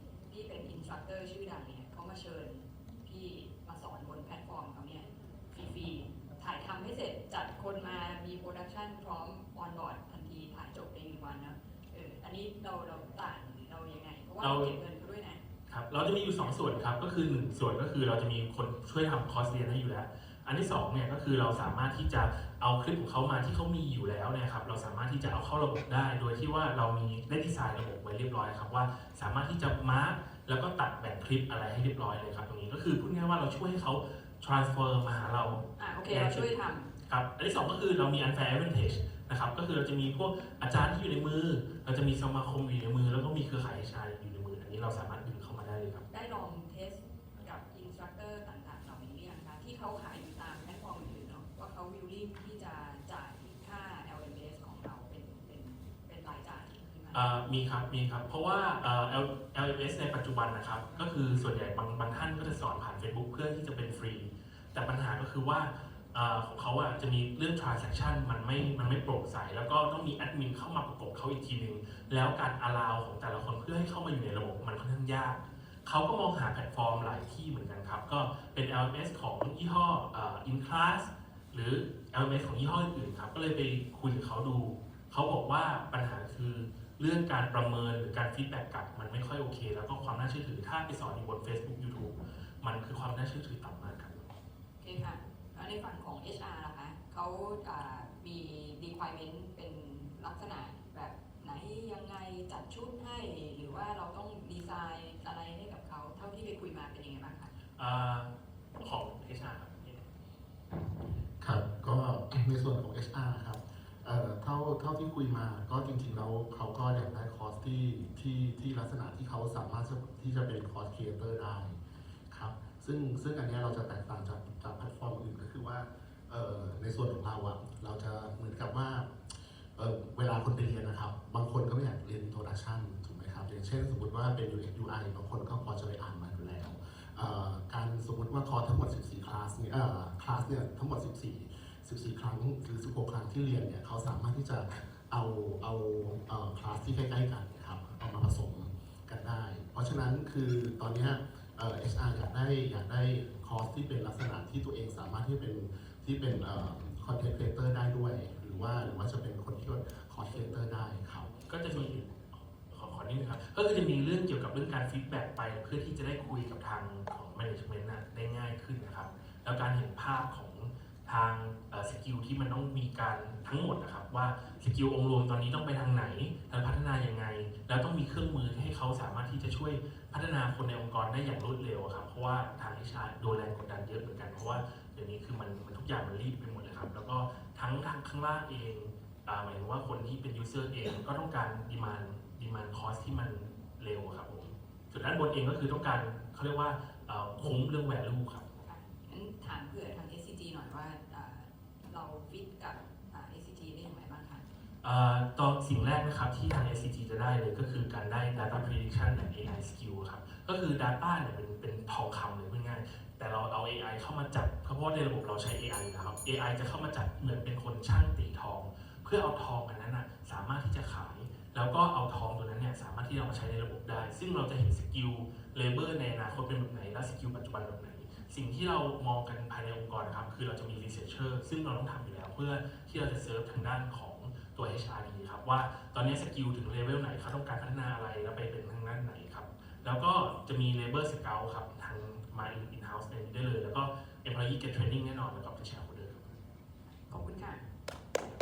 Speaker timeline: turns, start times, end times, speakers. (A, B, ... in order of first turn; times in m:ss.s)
0:00.3-0:15.4 A
0:14.4-0:14.7 B
0:15.7-0:36.5 B
0:35.8-0:36.9 A
0:37.0-0:46.1 B
0:46.1-0:57.3 A
0:57.1-1:34.3 B
1:34.8-1:47.5 A
1:47.8-1:50.0 B
1:51.4-2:09.1 C
2:09.8-2:41.8 C
2:41.5-3:18.5 B
3:18.6-3:24.4 A
3:24.8-4:06.3 B
4:07.1-4:07.6 A